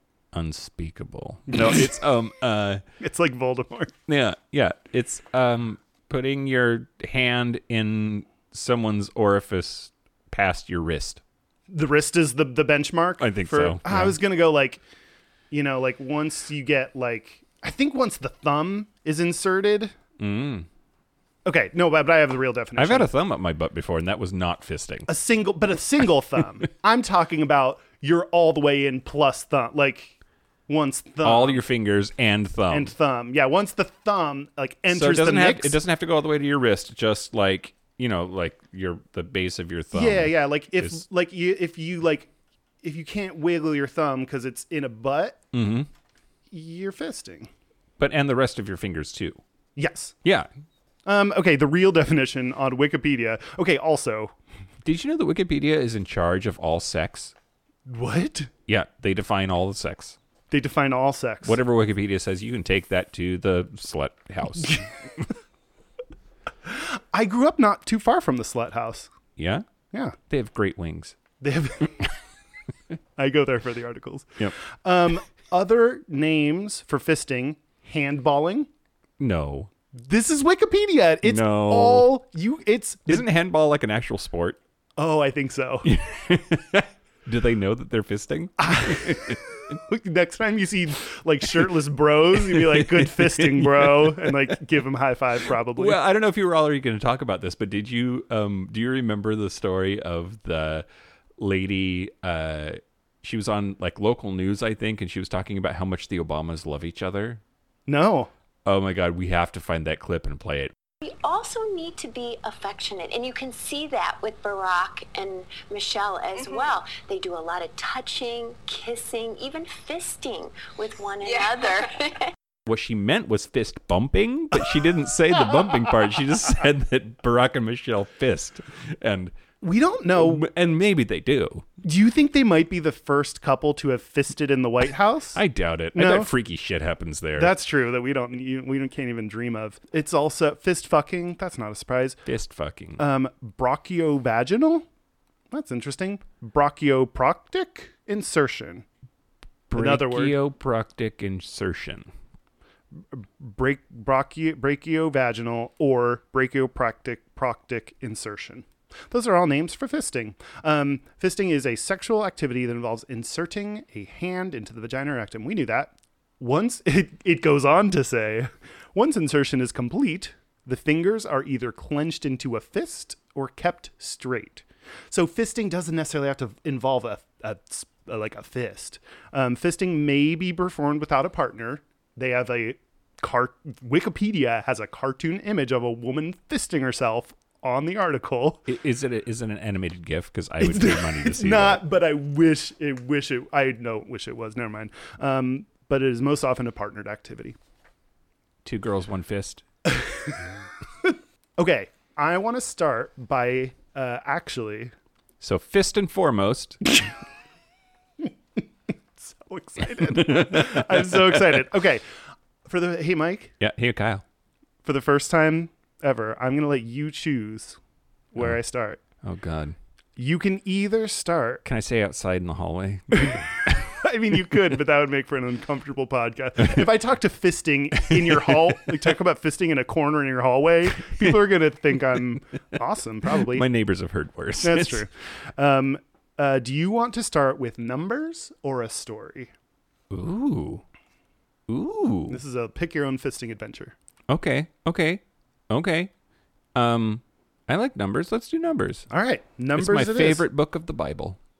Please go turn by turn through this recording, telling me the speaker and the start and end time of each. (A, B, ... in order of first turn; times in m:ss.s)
0:00.3-0:02.8 A
0:03.0-0:03.9 B
0:04.1-0:11.2 A
0:11.7-0:14.8 B
0:13.2-0:14.2 A
0:15.5-0:19.9 B
0:20.2-0:20.7 A
0:21.4-0:23.1 B
0:22.8-0:25.1 A
0:25.1-0:30.2 B
0:30.7-0:31.6 B
0:31.2-0:32.9 A
0:32.7-0:35.8 B
0:34.9-0:41.0 A
0:39.9-0:42.3 B
0:42.8-0:45.4 B
0:45.5-0:45.9 A
0:46.5-0:47.5 B
0:48.0-0:49.4 A
0:49.8-0:50.1 B
0:50.2-0:50.5 A
0:51.0-0:54.3 B
0:54.8-0:57.3 A
0:57.8-0:58.5 B
0:58.7-1:00.2 A
1:00.5-1:01.6 B
1:01.4-1:05.2 A
1:06.6-1:09.1 B
1:09.4-1:09.6 A
1:10.3-1:11.2 A
1:11.4-1:12.1 B
1:13.2-1:18.7 B
1:19.2-1:19.7 A
1:19.9-1:23.3 B
1:21.2-1:22.1 A
1:23.1-1:24.6 A
1:25.0-1:25.9 B
1:25.8-1:29.4 A
1:28.6-1:36.0 B
1:32.3-1:34.5 A
1:35.7-1:40.8 A
1:41.4-1:47.4 A
1:47.9-1:48.3 B
1:48.6-1:50.7 A
1:51.0-2:02.3 C
2:02.6-2:09.3 A
2:09.6-2:10.5 B
2:10.1-2:11.7 A
2:11.8-2:15.4 B
2:15.3-2:17.5 A
2:15.9-2:16.3 B
2:17.4-2:22.2 B
2:22.2-2:23.0 A
2:23.0-2:24.8 B
2:25.5-2:28.8 B
2:29.7-2:32.1 A
2:29.7-2:30.4 B
2:33.1-3:08.6 B
3:08.7-3:11.8 A
3:10.6-3:17.6 B
3:18.6-3:19.6 A
3:19.9-3:20.4 B
3:21.0-3:24.9 B
3:25.4-3:26.8 A
3:29.2-3:32.1 B
3:30.0-3:31.6 A
3:32.6-3:33.5 B
3:33.6-3:34.2 A
3:34.8-3:37.8 B
3:38.3-3:39.0 B
3:39.2-3:39.8 A
3:40.2-3:41.6 B
3:41.6-3:43.9 A
3:43.9-3:53.6 B
3:48.1-3:48.5 A
3:53.4-3:55.0 A
3:54.6-3:59.5 B
4:00.1-4:00.8 A
4:01.7-4:02.4 A
4:02.3-4:03.9 B
4:04.3-4:06.1 A
4:06.7-4:09.1 A
4:09.1-4:10.4 B
4:09.7-4:11.4 A